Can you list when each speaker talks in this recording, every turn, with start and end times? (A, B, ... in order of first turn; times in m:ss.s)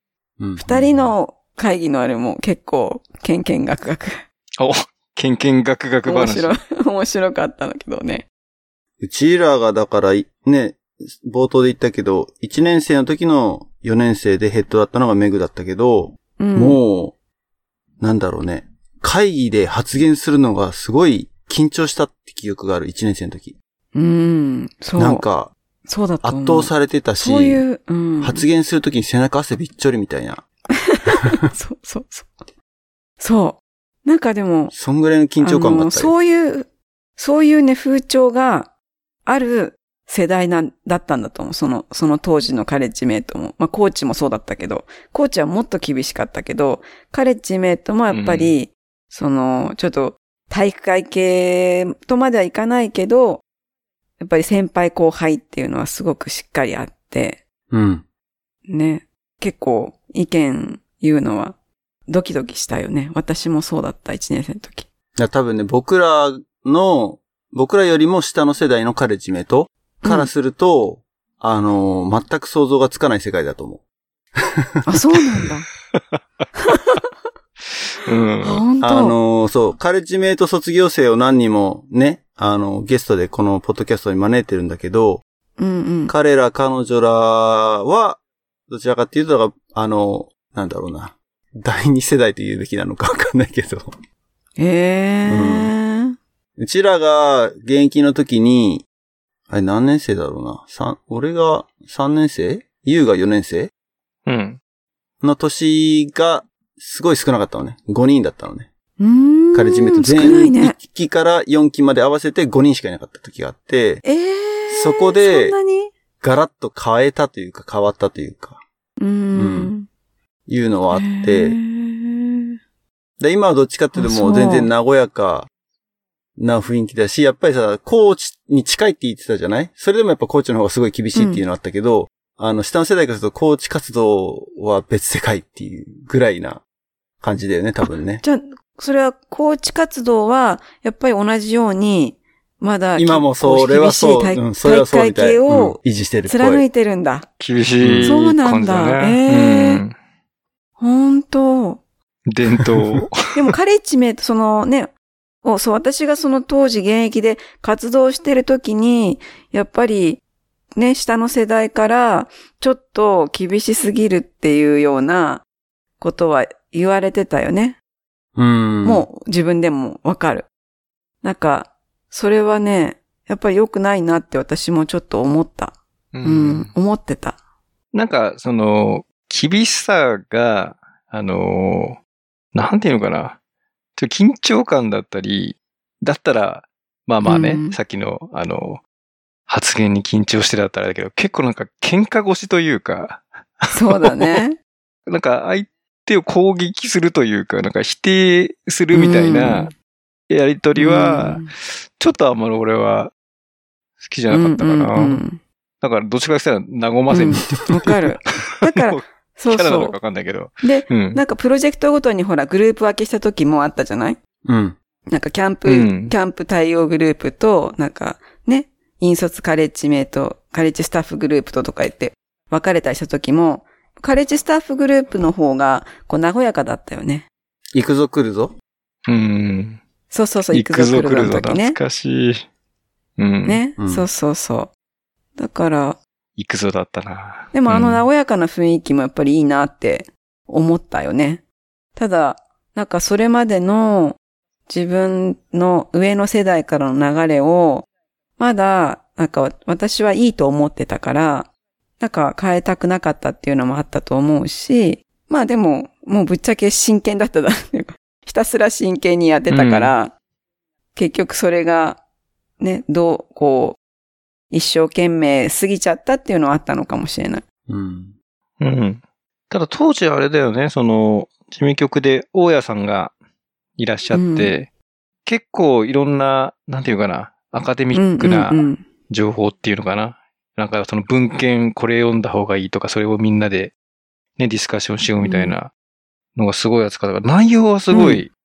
0:00.4-0:01.2 A
0:00.6-0:04.2 B
0:04.6-0:06.6 C
0:06.0-0:08.3 B
0:09.0-0:17.2 A
0:16.4-0:16.8 B
0:18.0-0:23.6 A
0:23.9-0:25.2 B
0:25.0-0:25.5 A
0:25.9-0:28.5 B
0:26.2-0:27.6 A
0:28.2-0:30.4 A
0:30.8-0:32.4 B
0:33.2-0:34.7 B
0:34.7-0:36.1 A
0:35.4-0:38.7 B
0:39.3-0:53.4 B
0:48.1-0:48.6 C
0:54.2-0:57.4 B
0:57.7-0:58.0 A
0:58.7-1:01.6 B
1:02.1-1:04.9 B
1:05.2-1:13.8 A
1:10.0-1:10.3 B
1:14.9-1:15.7 B
1:15.9-1:16.2 C
1:16.6-1:17.0 B
1:18.1-1:18.6 C
1:18.4-1:19.2 B
1:18.8-1:25.2 A
1:25.6-1:26.1 B
1:26.1-1:33.9 A
1:34.6-1:36.2 B
1:35.3-1:35.7 A
1:36.6-1:38.9 A
1:39.5-1:43.7 A
1:44.3-1:44.6 C
1:45.2-1:48.7 A
1:49.0-1:50.8 B
1:49.5-1:54.0 A
1:54.0-1:55.9 B
1:54.7-1:55.6 A
1:56.2-1:58.6 A
1:59.0-1:59.9 B
1:59.4-1:59.7 A
2:00.5-2:01.6 A
2:00.9-2:02.4 B
2:03.2-2:05.5 A
2:03.9-2:04.7 B
2:06.4-2:16.6 A
2:11.2-2:11.4 B
2:17.2-2:18.2 A
2:17.8-2:27.3 B
2:23.0-2:26.6 A
2:27.4-2:30.0 C
2:27.8-2:28.2 A
2:28.0-2:29.8 B
2:30.8-2:31.8 B
2:32.3-2:33.2 C
2:33.3-2:34.9 B
2:35.4-2:40.2 B
2:40.8-2:45.4 B
2:46.0-2:47.8 B
2:48.4-2:49.1 A
2:48.8-2:50.5 B
2:51.2-2:57.4 B
2:56.1-2:56.7 C
2:57.9-3:02.0 C
3:02.5-3:03.4 C
3:04.0-3:08.8 C
3:07.2-3:07.8 B
3:09.5-3:14.4 C
3:13.7-3:14.6 B
3:15.1-3:19.7 C
3:18.9-3:19.7 B
3:20.3-3:23.1 C
3:20.8-3:21.5 B
3:24.0-3:25.2 C
3:24.3-3:25.4 B
3:25.8-3:27.9 C
3:27.1-3:30.0 B
3:28.7-3:31.2 C
3:30.6-3:34.2 B
3:34.4-3:34.8 A
3:35.1-3:47.3 B
3:35.7-3:36.1 C
3:47.7-3:48.5 A
3:49.1-3:49.8 C
3:50.1-3:51.8 B
3:50.5-3:52.5 C
3:53.2-3:53.6 C
3:53.4-3:54.7 B
3:53.8-3:54.1 A
3:55.4-3:56.0 B
3:56.4-3:58.1 C
3:57.5-4:01.4 B
4:02.0-4:07.9 B
4:08.4-4:11.5 B
4:12.0-4:20.1 B
4:19.5-4:19.9 C
4:21.0-4:22.0 B
4:22.6-4:23.8 B
4:24.5-4:27.4 B
4:27.7-4:28.1 A
4:28.6-4:33.1 C
4:33.8-4:34.7 C
4:34.1-4:34.5 B
4:35.3-4:43.7 C
4:37.9-4:38.8 B
4:44.4-4:45.7 C
4:45.2-4:45.6 B
4:46.4-4:48.3 C
4:47.9-4:48.2 B